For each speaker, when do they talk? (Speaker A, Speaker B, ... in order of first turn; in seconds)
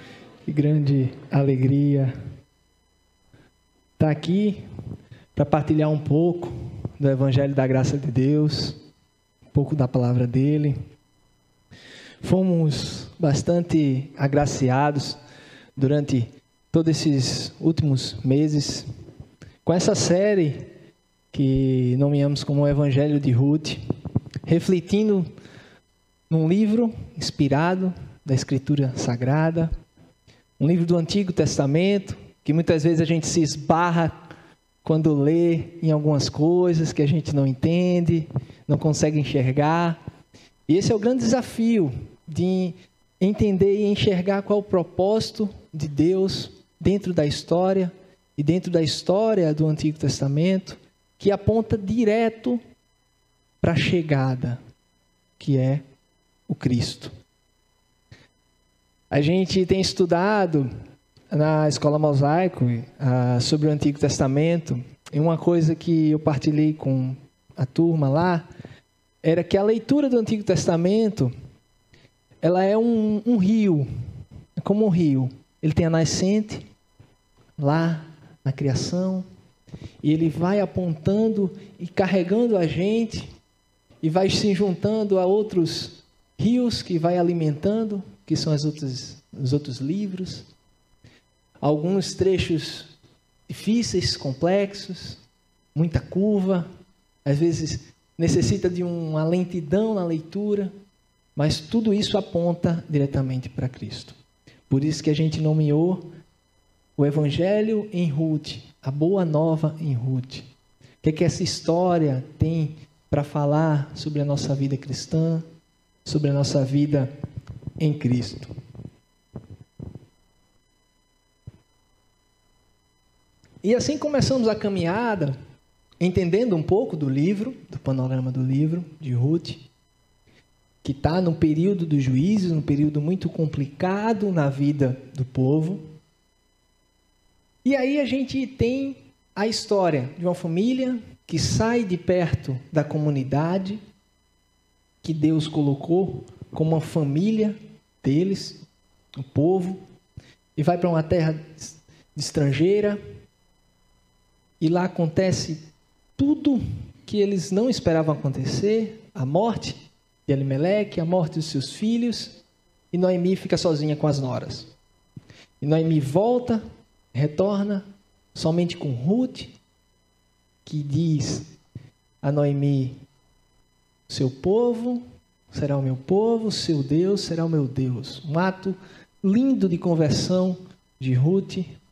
Speaker A: 0.5-2.1, 4.0-4.6, 5.3-8.8, 9.5-10.8, 12.2-15.2, 15.8-18.9, 19.6-20.7, 21.3-23.8, 24.5-25.3, 26.3-29.7, 30.6-40.0, 40.7-52.6, 53.6-54.6, 55.4-55.8, 56.5-57.1, 59.1-60.7, 61.3-68.5, 69.2-71.3, 72.4-73.9, 74.6-76.7, 77.6-79.3, 80.0-83.3, 84.0-90.5, 91.6-92.9, 93.5-95.2, 95.8-96.7, 97.2-100.7, 101.4-104.2, 104.7-106.1, 107.0-110.5, 111.0-115.5, 116.0-117.1, 117.8-118.5, 123.6-125.3, 126.0-129.7, 130.8-135.8, 137.7-143.8, 145.0-148.6, 149.2-149.8, 150.6-153.0, 154.6-155.7, 156.2-162.4, 162.9-164.7, 165.6-166.6, 167.1-169.6, 170.7-171.5, 172.2-173.0, 174.1-181.7